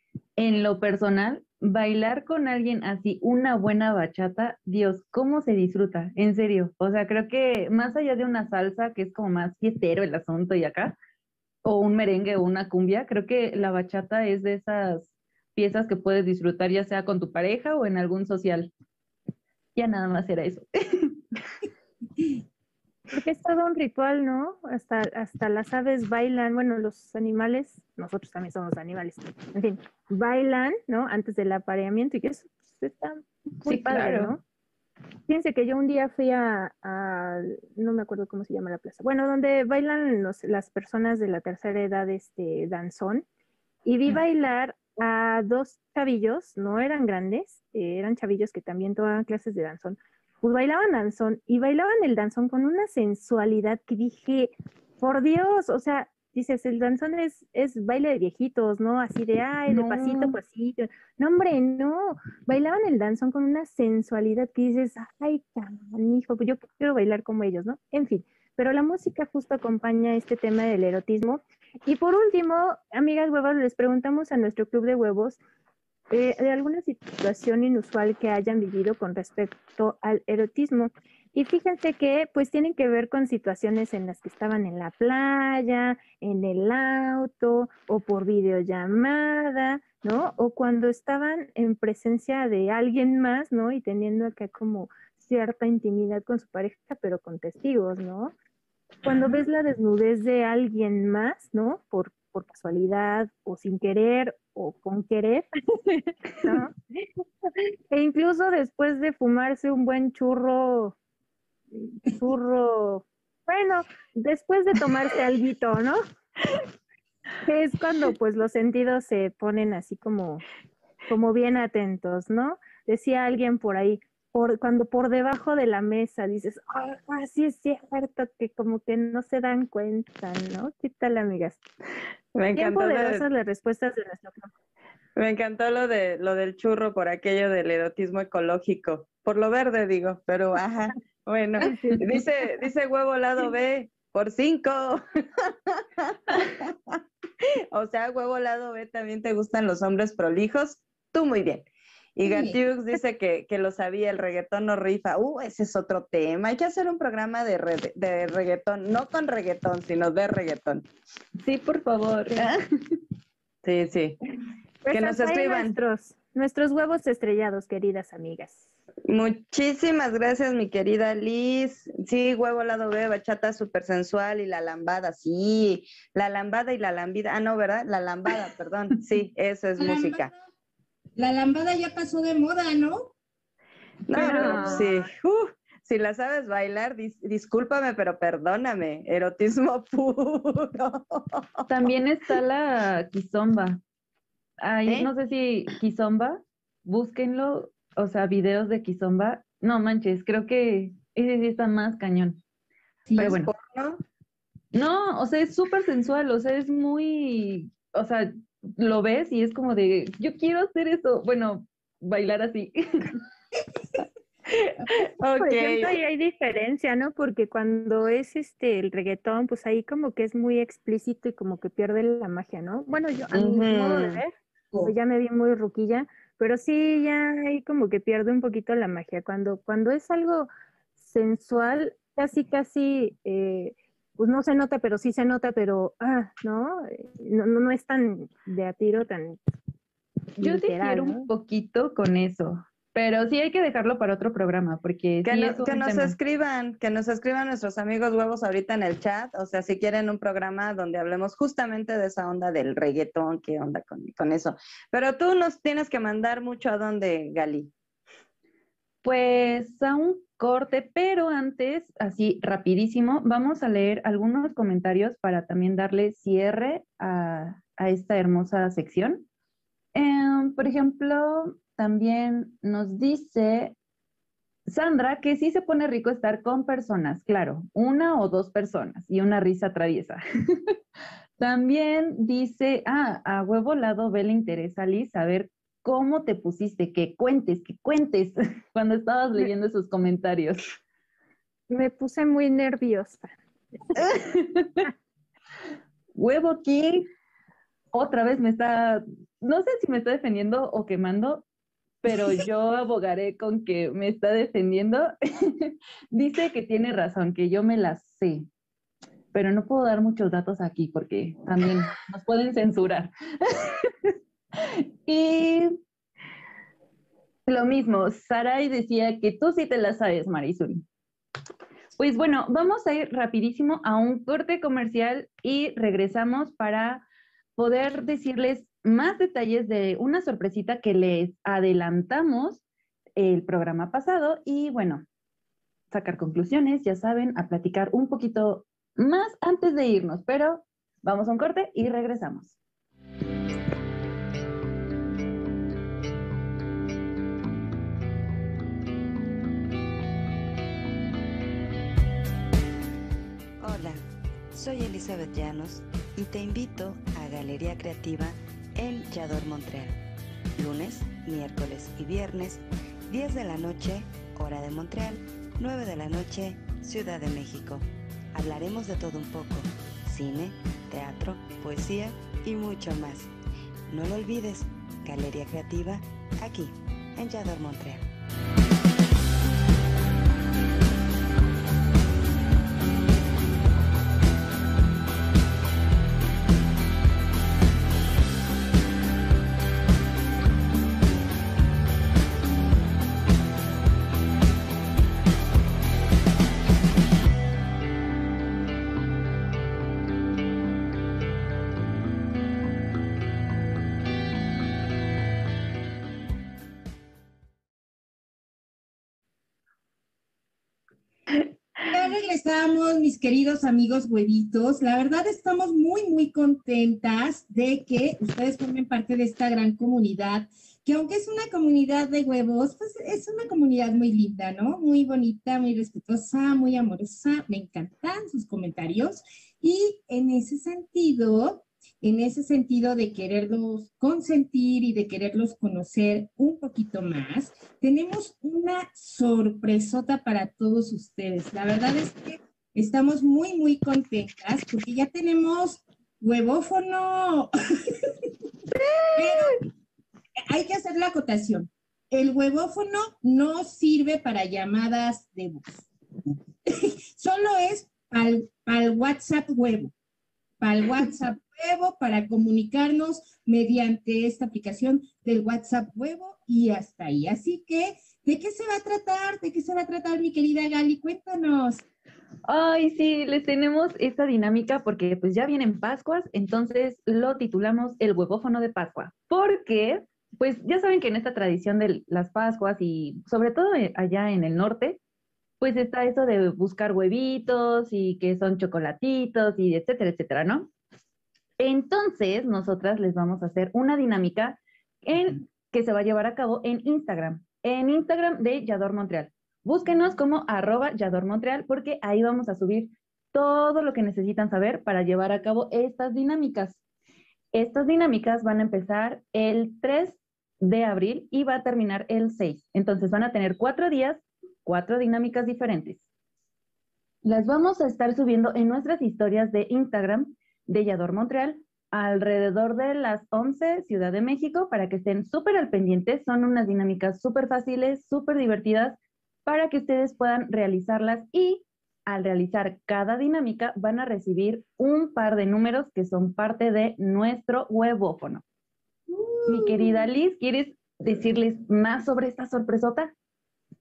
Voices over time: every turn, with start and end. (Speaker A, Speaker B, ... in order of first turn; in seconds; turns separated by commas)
Speaker A: 0.4-11.0, Speaker A: 11.6-18.7, Speaker A: 19.8-21.2, Speaker B: 23.1-34.4, Speaker A: 33.6-34.3, Speaker B: 35.3-43.2, Speaker B: 43.9-75.4, Speaker A: 59.7-60.4, Speaker B: 76.1-98.3, Speaker B: 99.0-106.7, Speaker C: 99.1-99.4, Speaker B: 107.5-111.0, Speaker B: 111.8-116.0, Speaker B: 117.4-120.4, Speaker B: 121.1-131.6, Speaker D: 132.3-133.2, Speaker B: 132.6-134.5, Speaker D: 135.2-147.0, Speaker B: 141.6-142.0, Speaker D: 147.7-151.7, Speaker D: 152.2-160.9, Speaker C: 152.3-152.6, Speaker A: 161.4-162.6, Speaker D: 163.6-164.2, Speaker B: 164.8-168.6, Speaker D: 164.9-165.8, Speaker D: 169.1-180.3, Speaker C: 179.8-180.3, Speaker C: 181.2-183.1, Speaker D: 184.1-191.7, Speaker C: 184.2-184.9, Speaker A: 184.2-184.9, Speaker A: 191.7-193.8, Speaker A: 194.6-202.4, Speaker D: 203.2-204.0, Speaker A: 203.2-203.5, Speaker A: 204.7-213.2, Speaker D: 215.2-215.9, Speaker B: 215.4-224.3, Speaker D: 223.3-224.2, Speaker B: 224.8-239.4, Speaker A: 240.4-246.2, Speaker B: 240.4-241.3, Speaker D: 245.2-257.7, Speaker A: 259.0-269.2, Speaker A: 269.9-273.8, Speaker A: 274.7-280.7, Speaker A: 281.4-290.7, Speaker B: 291.7-293.3, Speaker A: 294.0-294.9, Speaker A: 296.1-297.1, Speaker A: 297.9-301.4, Speaker A: 302.0-308.5, Speaker A: 309.3-315.7, Speaker A: 317.5-320.8, Speaker A: 322.0-327.0, Speaker A: 327.6-332.6, Speaker A: 333.2-335.0, Speaker A: 335.9-342.6, Speaker E: 353.6-354.0, Speaker E: 354.5-359.9, Speaker E: 360.6-373.3, Speaker E: 373.9-378.0, Speaker C: 411.9-448.3, Speaker A: 448.7-449.5, Speaker C: 449.2-449.6, Speaker C: 450.5-459.9, Speaker C: 460.6-471.8, Speaker A: 472.4-485.0, Speaker A: 485.6-490.7, Speaker A: 491.6-506.8, Speaker A: 507.5-516.0, Speaker A: 517.2-538.4, Speaker C: 539.1-540.0, Speaker A: 539.5-543.1